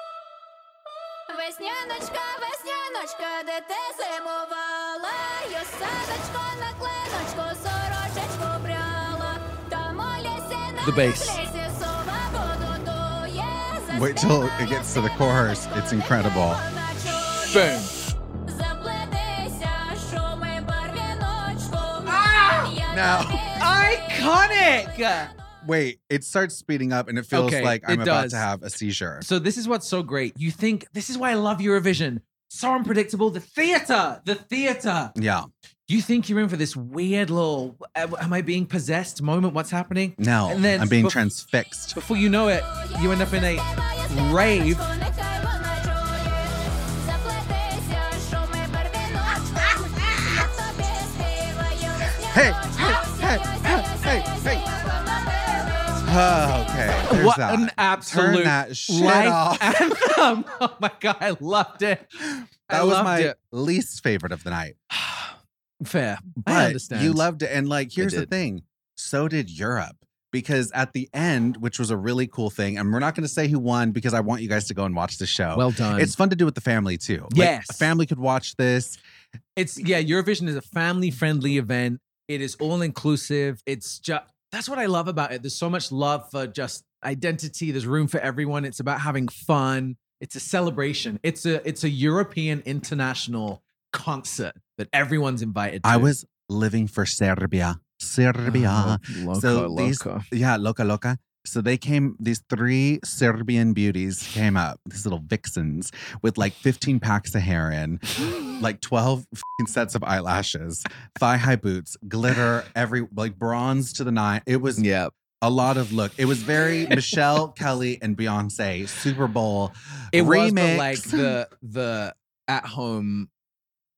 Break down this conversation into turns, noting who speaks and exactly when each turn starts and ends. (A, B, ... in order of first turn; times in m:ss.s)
0:01.3-0:15.0 A
0:10.8-0:11.4 B
0:13.9-0:16.6 C
0:16.4-0:17.9 A
0:17.4-0:17.9 B
0:18.5-0:25.3 A
0:22.1-0:22.8 B
0:22.9-0:23.4 C
0:23.6-0:25.3 B
0:25.6-0:29.3 C
0:27.3-0:28.4 B
0:29.2-0:35.1 B
0:35.2-0:35.5 C
0:35.9-0:41.2 B
0:40.2-0:42.0 C
0:41.9-0:44.8 B
0:42.6-0:56.7 A
0:52.3-0:54.7 C
0:56.0-0:59.8 C
0:57.1-1:02.1 B
1:02.2-1:04.8 C
1:02.7-1:03.4 B
1:04.9-1:07.2 B
1:06.4-1:19.0 C
1:08.0-1:08.3 B
1:15.5-1:16.1 B
1:17.3-1:17.9 B
1:19.6-1:36.1 B
1:35.8-1:54.8 C
1:38.4-1:40.3 B
1:54.8-1:55.1 B
1:55.4-2:01.3 C
2:00.1-2:03.3 B